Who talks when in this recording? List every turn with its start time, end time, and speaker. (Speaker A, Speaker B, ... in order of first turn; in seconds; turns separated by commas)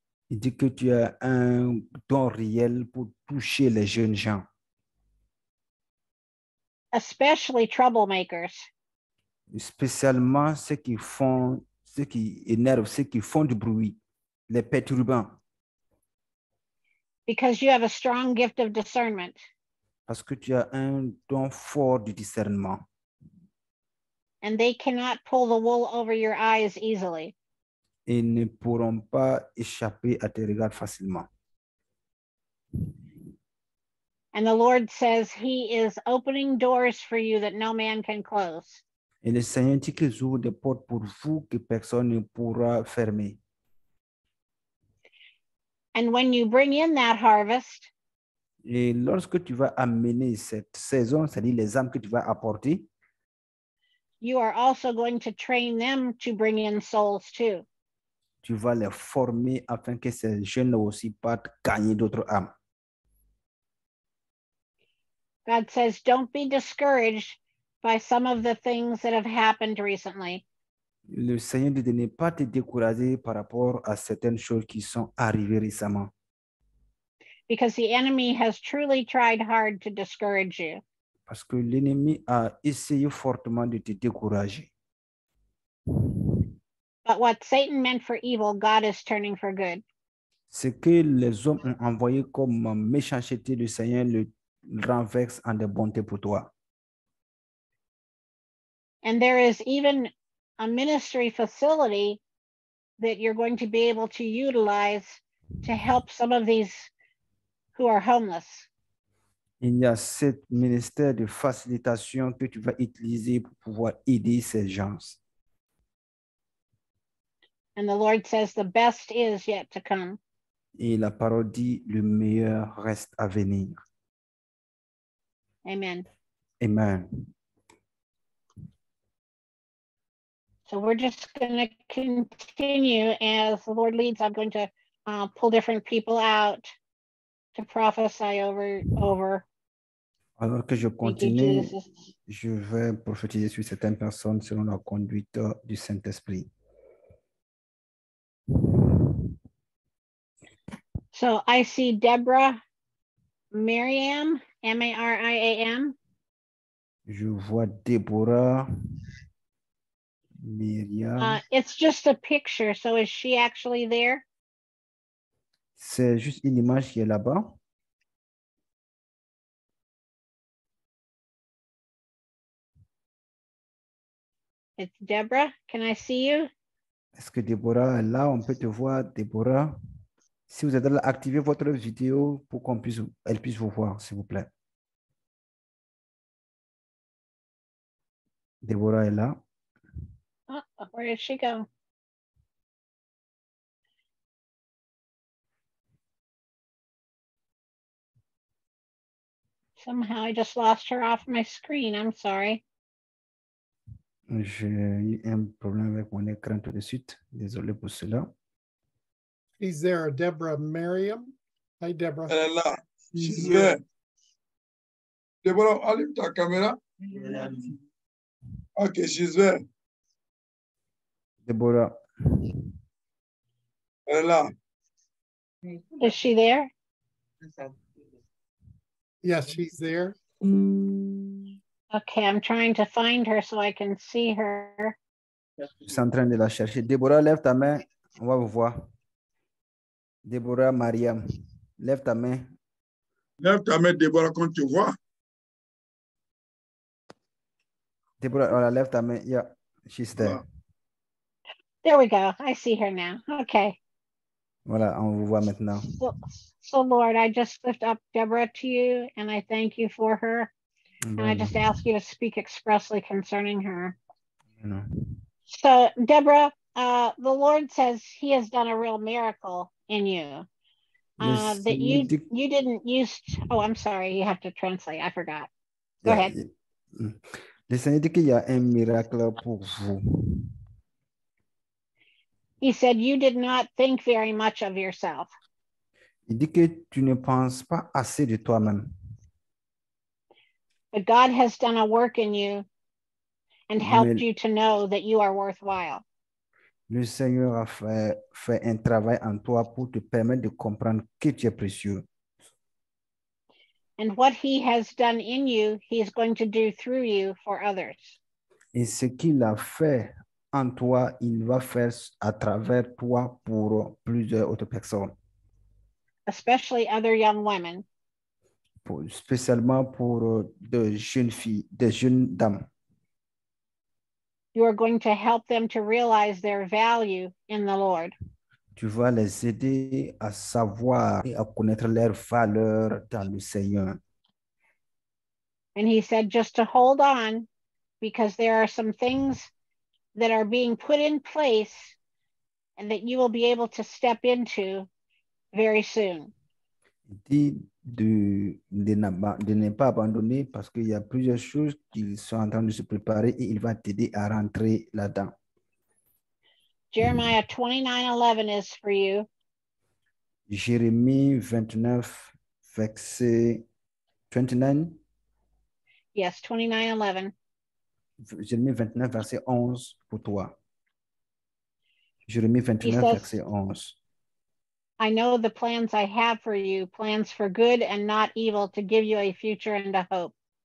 Speaker A: 0.3-4.4, Speaker B: 6.9-8.7, Speaker A: 9.5-14.0, Speaker A: 14.5-15.4, Speaker B: 17.3-19.4, Speaker A: 20.1-22.8, Speaker B: 24.4-27.3, Speaker A: 28.1-31.3, Speaker B: 34.3-38.8, Speaker A: 39.2-43.4, Speaker B: 45.9-47.9, Speaker A: 48.6-52.9, Speaker B: 54.2-57.6, Speaker A: 58.4-62.5, Speaker B: 65.5-70.4, Speaker A: 71.1-76.1, Speaker B: 77.5-80.8, Speaker A: 81.3-84.7, Speaker A: 85.9-86.5, Speaker B: 87.0-89.8, Speaker A: 90.5-96.5, Speaker B: 99.0-102.2, Speaker B: 103.0-106.9, Speaker B: 107.7-108.7, Speaker A: 109.6-115.2, Speaker B: 117.8-120.2, Speaker A: 120.8-123.8, Speaker B: 125.6-126.0, Speaker A: 126.6-127.3, Speaker B: 130.7-136.7, Speaker B: 137.5-139.4, Speaker A: 140.4-141.7, Speaker B: 141.0-141.9, Speaker A: 142.3-146.5, Speaker A: 148.5-149.3, Speaker B: 151.1-152.6, Speaker B: 153.5-155.9, Speaker A: 157.1-158.7, Speaker A: 160.4-161.4, Speaker B: 161.2-164.2, Speaker A: 165.8-167.6, Speaker B: 174.8-176.5, Speaker A: 177.2-179.8, Speaker A: 180.5-184.5, Speaker A: 188.6-189.4, Speaker B: 190.5-191.7, Speaker B: 199.8-202.6, Speaker A: 204.3-208.3, Speaker C: 209.6-212.3, Speaker D: 212.3-213.8, Speaker C: 213.2-213.8, Speaker D: 215.4-216.8, Speaker D: 218.8-219.6, Speaker A: 221.4-222.7, Speaker D: 224.1-224.5, Speaker B: 226.0-226.7, Speaker C: 229.2-230.2, Speaker B: 231.9-235.0, Speaker A: 235.8-238.8, Speaker A: 240.2-241.2, Speaker A: 241.8-242.5, Speaker D: 243.4-244.9, Speaker A: 248.2-250.4, Speaker B: 251.8-253.8, Speaker A: 254.7-255.9, Speaker B: 256.0-260.5, Speaker A: 261.1-261.6, Speaker B: 261.2-264.0, Speaker A: 264.6-265.2, Speaker B: 265.5-270.4, Speaker B: 271.2-275.5, Speaker A: 271.2-272.3, Speaker A: 276.0-280.6, Speaker B: 276.1-276.3, Speaker B: 282.6-285.3, Speaker A: 286.3-288.9, Speaker B: 290.9-292.6, Speaker B: 293.7-296.0, Speaker A: 293.8-294.2, Speaker A: 296.9-302.1, Speaker B: 304.0-308.2, Speaker A: 308.7-315.1, Speaker B: 316.3-317.8, Speaker A: 318.8-322.7, Speaker B: 324.5-328.1, Speaker A: 328.8-334.0, Speaker B: 335.8-337.5, Speaker B: 338.0-339.5, Speaker B: 340.1-341.9, Speaker B: 342.8-344.9, Speaker B: 345.5-346.3, Speaker A: 347.1-355.3, Speaker B: 356.9-359.3, Speaker A: 360.5-363.6, Speaker A: 364.3-365.0, Speaker B: 366.1-367.3, Speaker A: 368.2-370.5, Speaker A: 372.3-374.0, Speaker B: 372.8-373.3, Speaker B: 375.0-380.3